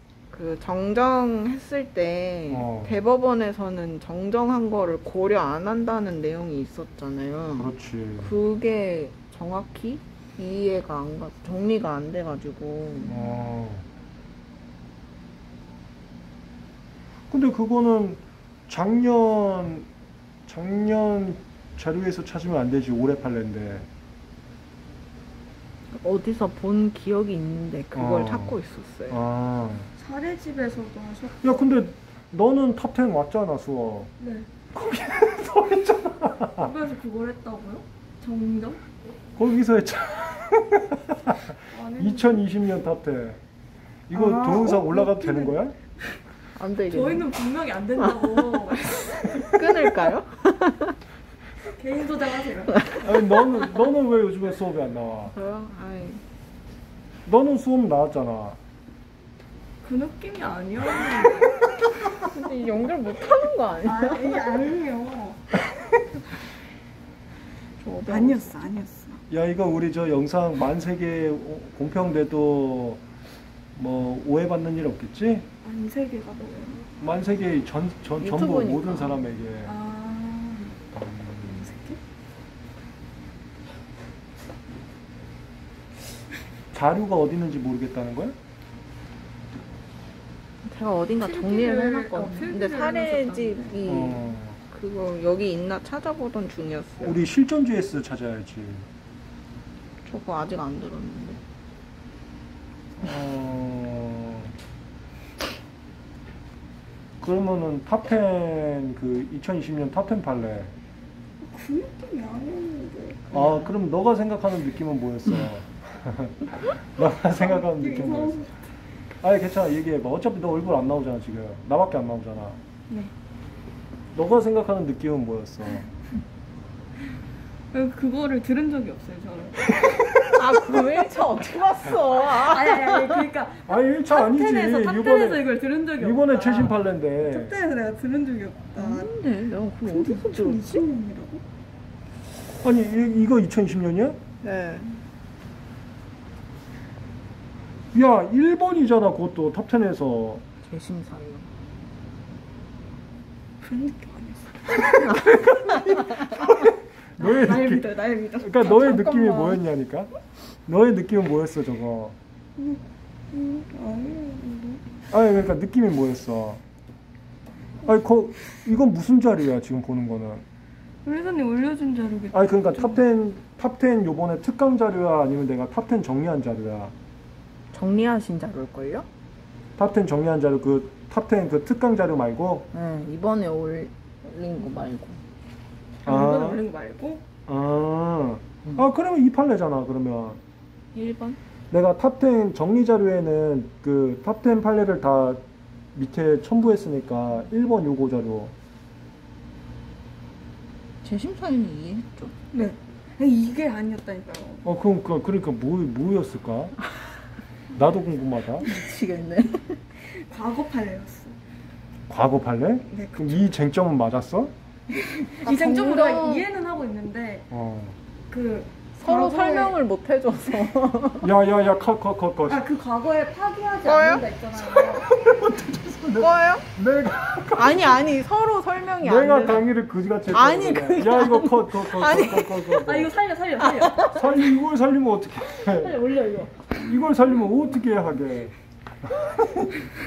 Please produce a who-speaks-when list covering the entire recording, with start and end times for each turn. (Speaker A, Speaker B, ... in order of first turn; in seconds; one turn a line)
Speaker A: 0.3-7.7
Speaker B: 2.5-3.0
Speaker B: 7.5-8.3
Speaker A: 8.2-13.2
Speaker B: 13.1-13.8
Speaker B: 17.3-19.9
Speaker B: 20.5-23.9
Speaker A: 25.9-29.2
Speaker B: 27.9-28.6
Speaker B: 29.1-29.9
Speaker C: 30.0-31.7
Speaker B: 31.4-34.1
Speaker C: 34.2-34.5
Speaker B: 34.7-36.7
Speaker C: 36.5-38.8
Speaker B: 39.4-43.4
Speaker C: 41.7-42.4
Speaker B: 44.1-45.8
Speaker C: 44.1-45.6
Speaker A: 46.5-47.3
Speaker C: 46.8-49.9
Speaker A: 49.2-51.0
Speaker C: 51.6-53.0
Speaker B: 53.0-55.3
Speaker A: 55.3-56.2
Speaker B: 57.2-58.6
Speaker C: 59.8-61.8
Speaker A: 62.1-64.6
Speaker C: 63.8-66.2
Speaker A: 67.8-68.6
Speaker C: 68.0-69.2
Speaker B: 69.3-73.0
Speaker B: 73.7-75.5
Speaker C: 75.6-76.8
Speaker B: 77.0-79.8
Speaker A: 78.2-79.3
Speaker C: 79.7-80.8
Speaker B: 80.9-81.6
Speaker C: 81.4-82.0
Speaker B: 86.7-88.4
Speaker A: 90.6-97.2
Speaker C: 91.2-93.9
Speaker B: 93.9-94.6
Speaker B: 97.0-98.9
Speaker A: 100.0-101.4
Speaker B: 103.0-104.5
Speaker B: 107.2-110.7
Speaker C: 111.4-113.7
Speaker B: 113.3-118.4
Speaker C: 117.3-118.7
Speaker B: 119.2-122.6
Speaker B: 124.1-125.9
Speaker C: 127.7-129.8
Speaker A: 130.2-133.2
Speaker C: 132.2-139.1
Speaker B: 133.7-137.6
Speaker A: 138.8-140.8
Speaker C: 139.8-141.4
Speaker B: 142.6-144.2
Speaker A: 144.4-145.0
Speaker B: 147.9-150.4
Speaker A: 150.7-151.5
Speaker C: 153.6-155.2
Speaker B: 155.1-157.9
Speaker C: 157.2-159.1
Speaker B: 158.4-160.1
Speaker A: 158.7-159.6
Speaker B: 160.7-162.2
Speaker C: 163.3-164.8
Speaker B: 165.1-166.6
Speaker B: 167.8-170.4
Speaker C: 171.0-173.0
Speaker B: 172.3-176.9
Speaker A: 177.7-179.1
Speaker B: 179.8-182.7
Speaker A: 182.7-185.2
Speaker C: 186.0-187.2
Speaker B: 186.1-186.6
Speaker B: 187.5-190.4
Speaker A: 190.9-191.4
Speaker B: 191.7-195.4
Speaker B: 195.9-198.5
Speaker A: 201.0-202.3
Speaker C: 202.5-204.6
Speaker B: 204.6-206.8
Speaker B: 207.7-208.7
Speaker A: 208.6-209.8
Speaker C: 210.0-211.3
Speaker B: 212.1-214.5
Speaker C: 212.9-213.5
Speaker A: 215.3-216.4
Speaker C: 215.3-217.4
Speaker B: 217.5-217.9
Speaker C: 218.3-219.8
Speaker A: 219.0-221.3
Speaker B: 221.2-222.7
Speaker C: 222.5-225.1
Speaker A: 223.8-224.2
Speaker B: 225.0-228.0
Speaker A: 226.2-226.7
Speaker A: 227.5-229.7
Speaker B: 229.0-233.1
Speaker A: 230.3-232.8
Speaker C: 232.7-234.4
Speaker A: 233.6-234.2
Speaker B: 234.0-236.1
Speaker C: 235.6-236.9
Speaker B: 236.6-238.5
Speaker B: 239.1-239.7